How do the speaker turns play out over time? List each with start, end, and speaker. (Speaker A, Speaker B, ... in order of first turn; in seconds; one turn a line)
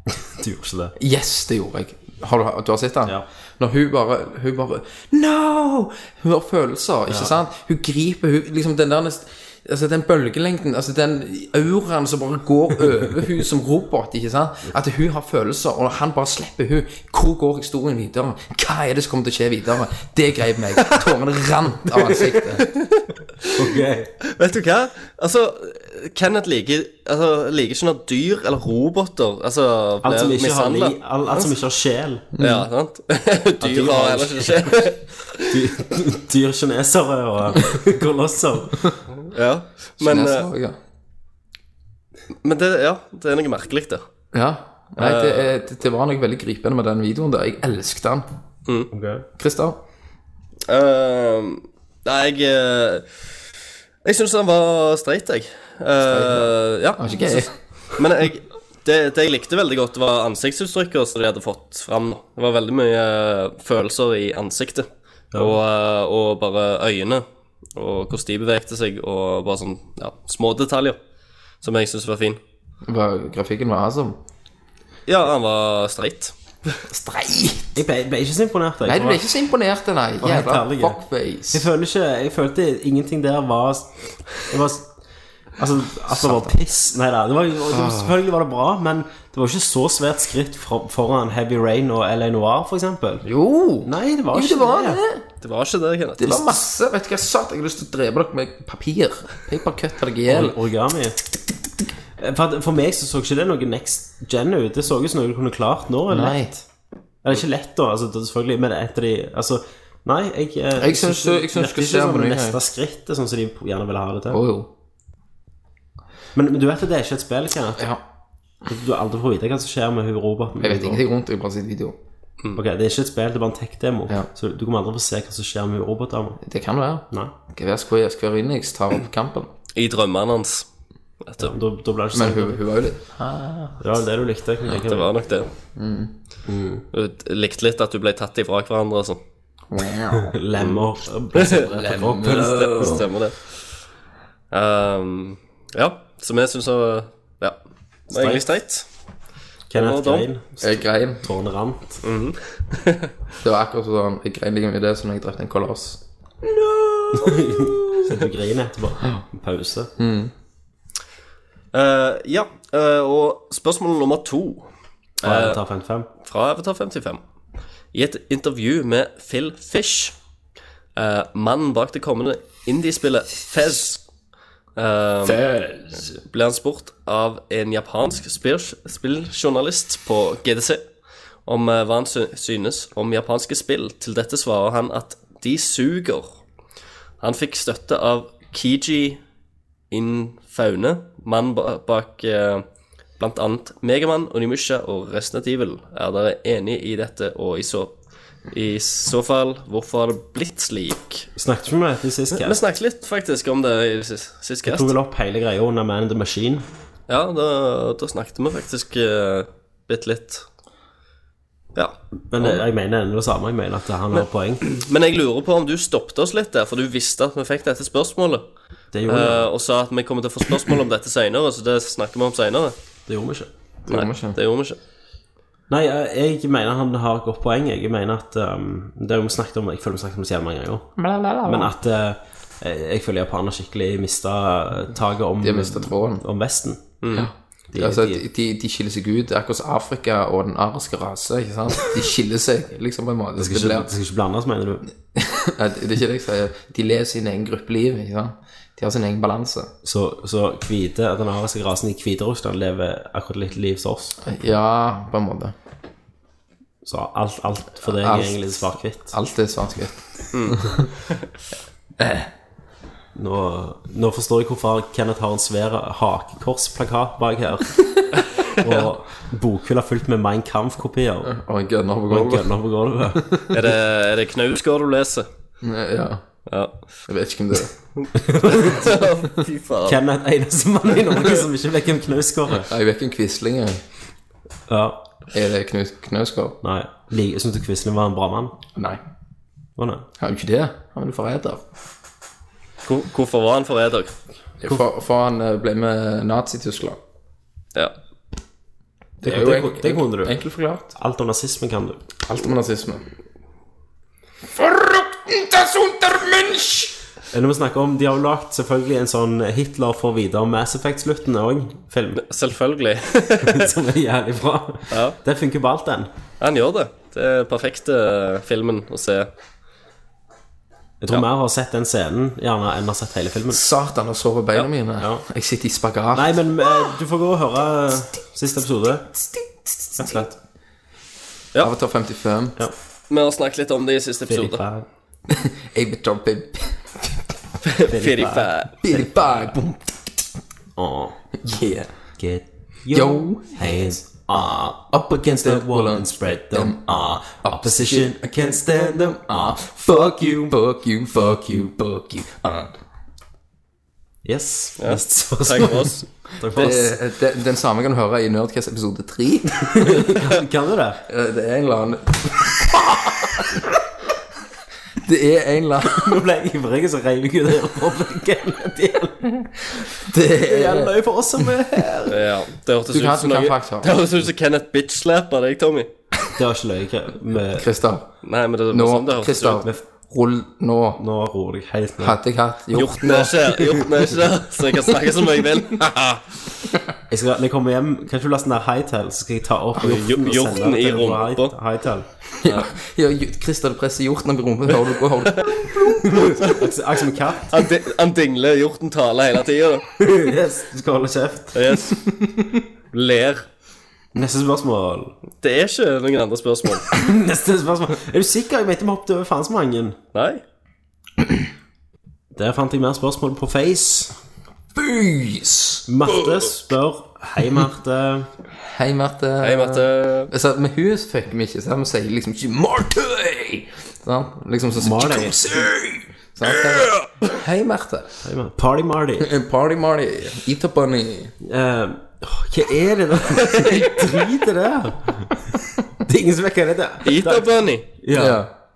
Speaker A: 0.3-0.9
Speaker B: 1.0-22.7
Speaker A: 7.1-7.3
Speaker C: 22.6-23.5
Speaker A: 23.5-24.1
Speaker C: 24.3-31.5
Speaker A: 30.0-32.3
Speaker B: 32.4-32.7
Speaker C: 32.4-35.5
Speaker A: 33.6-34.8
Speaker A: 35.4-39.0
Speaker C: 39.2-40.5
Speaker B: 40.0-40.8
Speaker C: 42.4-44.0
Speaker B: 44.3-48.3
Speaker C: 45.0-45.5
Speaker A: 48.9-49.2
Speaker B: 49.4-49.8
Speaker C: 50.7-53.2
Speaker C: 54.0-67.2
Speaker B: 56.0-57.5
Speaker A: 65.3-65.6
Speaker C: 67.8-71.0
Speaker C: 71.6-72.4
Speaker B: 72.8-74.2
Speaker C: 75.1-76.8
Speaker B: 76.9-77.8
Speaker A: 77.8-79.3
Speaker B: 78.8-81.7
Speaker A: 80.2-84.9
Speaker A: 85.6-93.3
Speaker B: 86.0-86.6
Speaker B: 87.7-88.2
Speaker B: 93.2-95.3
Speaker A: 93.8-95.0
Speaker C: 95.4-96.6
Speaker B: 96.2-100.6
Speaker A: 100.3-101.2
Speaker A: 102.2-106.5
Speaker B: 106.1-106.6
Speaker A: 107.2-114.4
Speaker B: 110.8-112.6
Speaker B: 114.3-114.7
Speaker A: 116.3-117.9
Speaker A: 118.7-121.0
Speaker B: 120.6-122.0
Speaker A: 122.5-126.4
Speaker B: 126.4-129.5
Speaker C: 129.8-130.7
Speaker C: 131.2-131.5
Speaker A: 131.4-132.6
Speaker B: 132.1-133.8
Speaker A: 133.8-135.1
Speaker C: 134.7-135.5
Speaker B: 135.8-136.1
Speaker A: 136.5-136.8
Speaker C: 136.9-139.2
Speaker B: 139.7-140.3
Speaker A: 140.1-143.0
Speaker C: 141.3-141.7
Speaker B: 141.6-143.1
Speaker C: 142.2-143.6
Speaker C: 144.5-147.6
Speaker C: 148.1-148.8
Speaker A: 148.1-148.4
Speaker A: 149.7-152.0
Speaker C: 149.7-150.3
Speaker B: 150.6-151.3
Speaker C: 152.0-153.1
Speaker B: 153.4-158.0
Speaker A: 157.1-159.9
Speaker B: 160.0-160.3
Speaker C: 161.7-164.7
Speaker C: 165.2-165.6
Speaker A: 165.2-166.1
Speaker C: 166.2-167.2
Speaker C: 167.9-170.2
Speaker C: 171.0-174.0
Speaker C: 174.8-175.5
Speaker B: 175.3-176.0
Speaker C: 176.0-180.8
Speaker C: 181.5-186.4
Speaker C: 187.2-189.2
Speaker C: 189.9-192.6
Speaker C: 193.2-197.9
Speaker C: 198.5-201.3
Speaker A: 201.4-202.6
Speaker C: 202.3-204.9
Speaker A: 204.7-206.7
Speaker C: 207.1-210.5
Speaker C: 211.8-212.6
Speaker A: 212.3-214.7
Speaker C: 214.1-218.4
Speaker A: 218.9-219.5
Speaker C: 219.1-222.8
Speaker A: 223.1-223.5
Speaker B: 223.9-224.4
Speaker C: 223.9-224.8
Speaker A: 225.7-230.9
Speaker B: 231.0-231.7
Speaker A: 231.4-236.8
Speaker B: 235.4-236.2
Speaker C: 237.0-237.3
Speaker B: 237.1-243.9
Speaker A: 237.7-238.2
Speaker A: 243.4-244.9
Speaker B: 245.2-249.7
Speaker A: 249.8-254.2
Speaker B: 254.2-255.5
Speaker A: 256.9-259.1
Speaker B: 257.8-260.9
Speaker C: 260.3-261.3
Speaker B: 262.0-262.3
Speaker A: 263.1-268.0
Speaker A: 268.6-271.3
Speaker B: 271.2-272.5
Speaker A: 272.1-273.4
Speaker B: 273.2-273.4
Speaker C: 273.5-275.3
Speaker B: 275.6-276.2
Speaker C: 276.5-276.7
Speaker B: 277.1-277.7
Speaker C: 278.0-280.0
Speaker A: 278.2-278.9
Speaker A: 279.9-282.7
Speaker B: 282.6-283.8
Speaker A: 284.7-285.1
Speaker B: 285.3-286.6
Speaker A: 286.6-288.6
Speaker B: 288.8-289.0
Speaker A: 289.8-290.1
Speaker B: 290.2-291.6
Speaker C: 292.9-294.1
Speaker B: 294.6-297.0
Speaker B: 299.2-300.9
Speaker A: 299.2-300.4
Speaker A: 300.9-302.0
Speaker B: 302.2-303.1
Speaker B: 304.5-307.0
Speaker A: 307.3-312.2
Speaker C: 312.2-313.7
Speaker A: 313.4-316.1
Speaker C: 314.9-315.2
Speaker C: 316.4-319.3
Speaker A: 321.0-323.6
Speaker B: 323.5-326.9
Speaker A: 326.1-329.1
Speaker B: 329.2-330.3
Speaker A: 330.0-330.3
Speaker B: 331.6-332.6
Speaker C: 333.1-334.6
Speaker A: 334.3-334.9
Speaker B: 335.3-337.2
Speaker C: 337.6-338.7
Speaker A: 337.9-339.1
Speaker B: 338.8-340.2
Speaker A: 340.8-341.2
Speaker B: 341.4-341.9
Speaker A: 342.2-350.6
Speaker B: 342.9-343.9
Speaker B: 344.9-352.7
Speaker A: 354.2-357.0
Speaker C: 354.8-356.1
Speaker B: 356.5-360.2
Speaker A: 359.7-361.0
Speaker B: 361.1-363.8
Speaker B: 365.0-366.2
Speaker A: 365.9-369.3
Speaker B: 369.9-371.5
Speaker A: 370.4-372.2
Speaker C: 372.1-375.9
Speaker B: 372.9-374.1
Speaker A: 376.4-377.7
Speaker B: 377.5-378.1
Speaker C: 378.2-379.6
Speaker B: 378.7-381.0
Speaker A: 381.0-382.2
Speaker B: 382.0-383.5
Speaker C: 382.7-386.4
Speaker A: 387.1-392.1
Speaker C: 389.8-391.5
Speaker B: 392.4-396.4
Speaker C: 392.4-392.7
Speaker A: 396.0-397.5
Speaker C: 397.5-399.9
Speaker A: 400.0-401.6
Speaker C: 401.5-402.0
Speaker C: 402.9-403.5
Speaker A: 404.1-405.2
Speaker C: 405.4-406.9
Speaker A: 406.9-410.0
Speaker C: 410.1-410.4
Speaker A: 412.4-414.1
Speaker B: 414.8-416.4
Speaker A: 415.9-418.3
Speaker B: 418.6-428.2
Speaker C: 419.4-420.3
Speaker A: 424.8-425.5
Speaker A: 428.2-429.3
Speaker B: 429.2-431.3
Speaker A: 431.4-438.4
Speaker C: 437.1-437.9
Speaker B: 438.1-438.5